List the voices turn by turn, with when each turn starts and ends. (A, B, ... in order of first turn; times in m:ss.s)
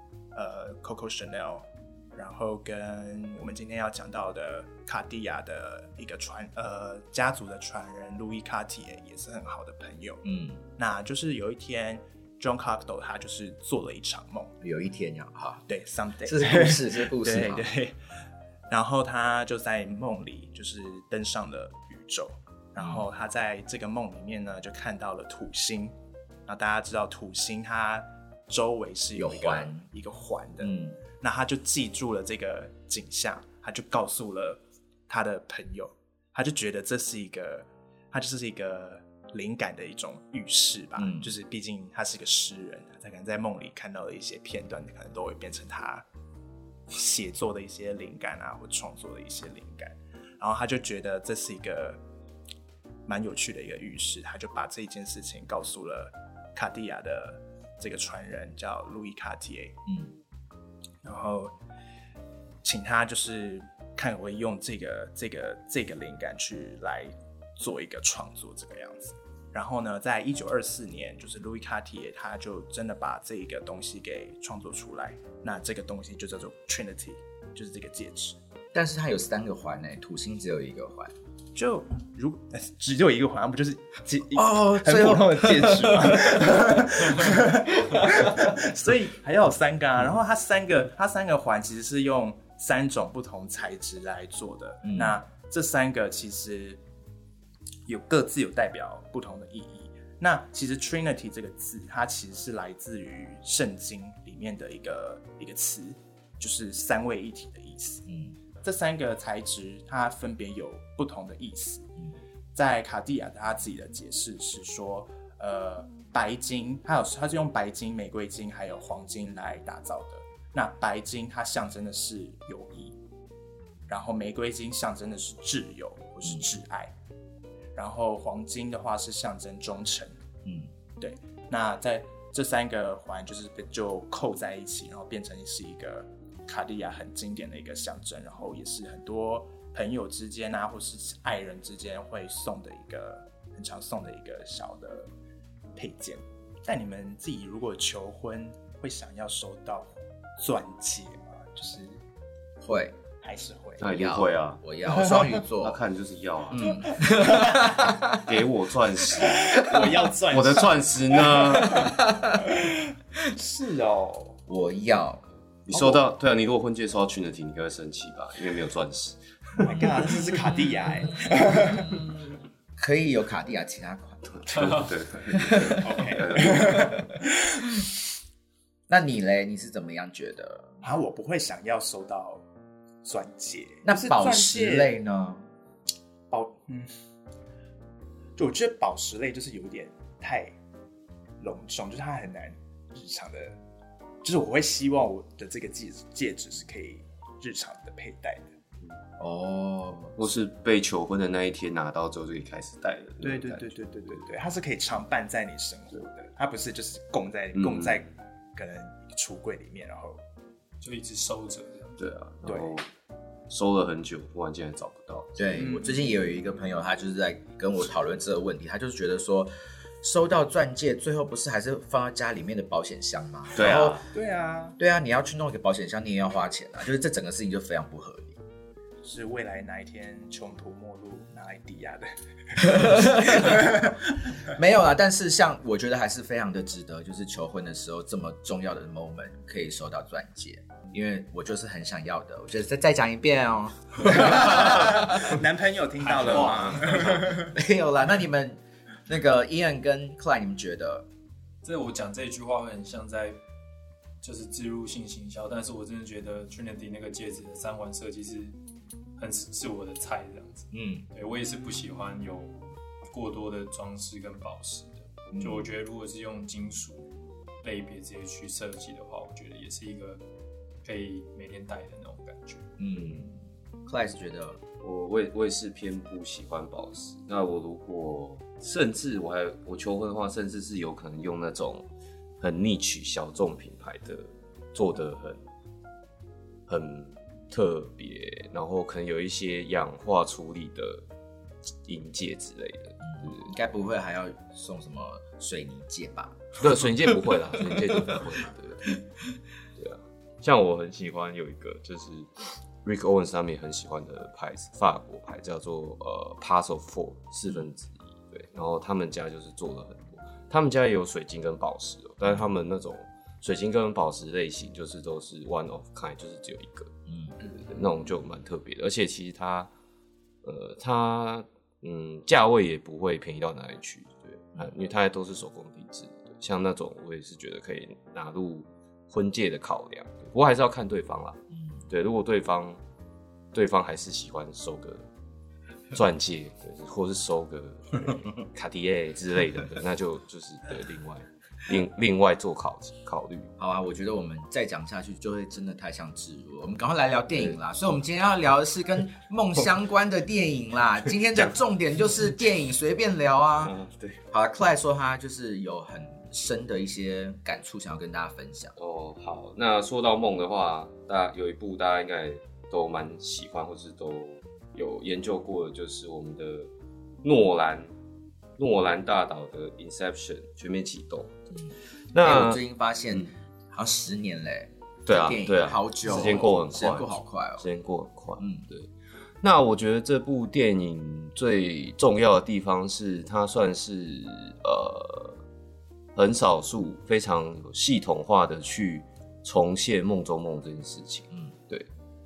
0:00.3-0:10.2 A
0:10.2-0:10.6 B
0:10.8-0:14.5 A
0:14.6-0:15.6 B
0:15.7-0:18.0 A
0:16.2-0:17.6 B
0:18.7-0:25.9 A
0:22.8-0:23.0 B
0:26.4-0:46.0 A
0:29.2-0:29.8 B
0:30.6-0:31.0 B
0:41.0-0:41.3 B
0:46.9-0:52.0 A
0:53.0-0:59.8 A
1:01.0-1:01.5 A
1:02.6-1:18.4 A
1:18.7-1:21.1 B
1:21.5-1:36.8 A
1:24.3-1:27.4 B
1:27.9-1:28.4 B
1:34.8-1:35.2 B
1:37.9-1:48.0 A
1:48.1-1:48.3 B
1:48.6-1:51.9 A
1:52.5-2:03.0 A
2:03.9-2:06.9 A
2:07.7-2:10.2 A
2:10.4-2:10.7 B
2:11.0-2:25.1 A
2:25.7-2:32.0 A
2:32.6-2:33.0 B
2:33.2-2:33.8 A
2:33.8-2:42.0 C
2:33.8-2:35.8 B
2:36.5-2:38.2 B
2:36.6-2:38.0 A
2:39.0-2:44.4 A
2:41.6-2:42.4 B
2:44.5-2:46.0 B
2:45.7-2:49.2 C
2:49.6-2:52.1 A
2:52.8-2:55.8 B
2:54.2-2:56.9 C
2:55.8-2:57.6 A
2:58.9-3:00.8 B
3:00.8-3:02.4 A
3:03.0-3:04.9 A
3:03.8-3:05.4 B
3:06.3-3:07.0 A
3:08.4-3:10.5 A
3:11.4-3:13.6 A
3:14.2-3:18.5 A
3:19.2-3:20.2 B
3:20.2-3:24.2 C
3:23.2-3:30.2 A
3:27.5-3:28.0 C
3:30.8-3:32.0 D
3:32.0-3:32.8 C
3:32.4-3:32.8 A
3:33.5-3:35.7 C
3:35.4-3:39.5 B
3:35.6-3:36.1 D
3:40.0-3:44.0 B
3:43.5-3:44.0 C
3:44.1-3:44.8 A
3:44.8-3:48.4 B
3:49.0-3:54.4 A
3:52.6-3:53.9 B
3:54.5-4:05.3 B
4:04.0-4:07.5 A
4:06.1-4:07.2 D
4:06.3-4:11.0 B
4:11.6-4:13.4 D
4:14.2-4:18.5 D
4:19.2-4:27.1 D
4:20.7-4:21.0 B
4:25.3-4:25.6 B
4:27.6-4:30.2 D
4:30.8-4:32.7 D
4:32.8-4:33.3 B
4:33.8-4:34.6 B
4:34.8-4:41.8 C
4:42.4-4:45.4 C
4:46.7-4:51.0 C
4:51.8-4:53.5 C
4:53.0-4:56.6 B
4:56.6-4:59.0 C
4:57.6-4:58.2 B
4:59.8-5:19.7 C
5:17.1-5:17.4 B
5:20.4-5:32.8 C
5:33.5-5:35.0 C
5:35.9-5:43.5 C
5:43.6-5:53.7 B
5:53.6-5:54.2 C
5:54.3-5:58.7 B
5:58.8-6:06.7 C
6:07.2-6:07.9 C
6:08.6-6:11.3 C
6:11.5-6:17.6 B
6:12.1-6:12.6 C
6:15.0-6:18.9 C
6:18.4-6:18.6 B
6:19.4-6:25.4 C
6:26.1-6:31.9 C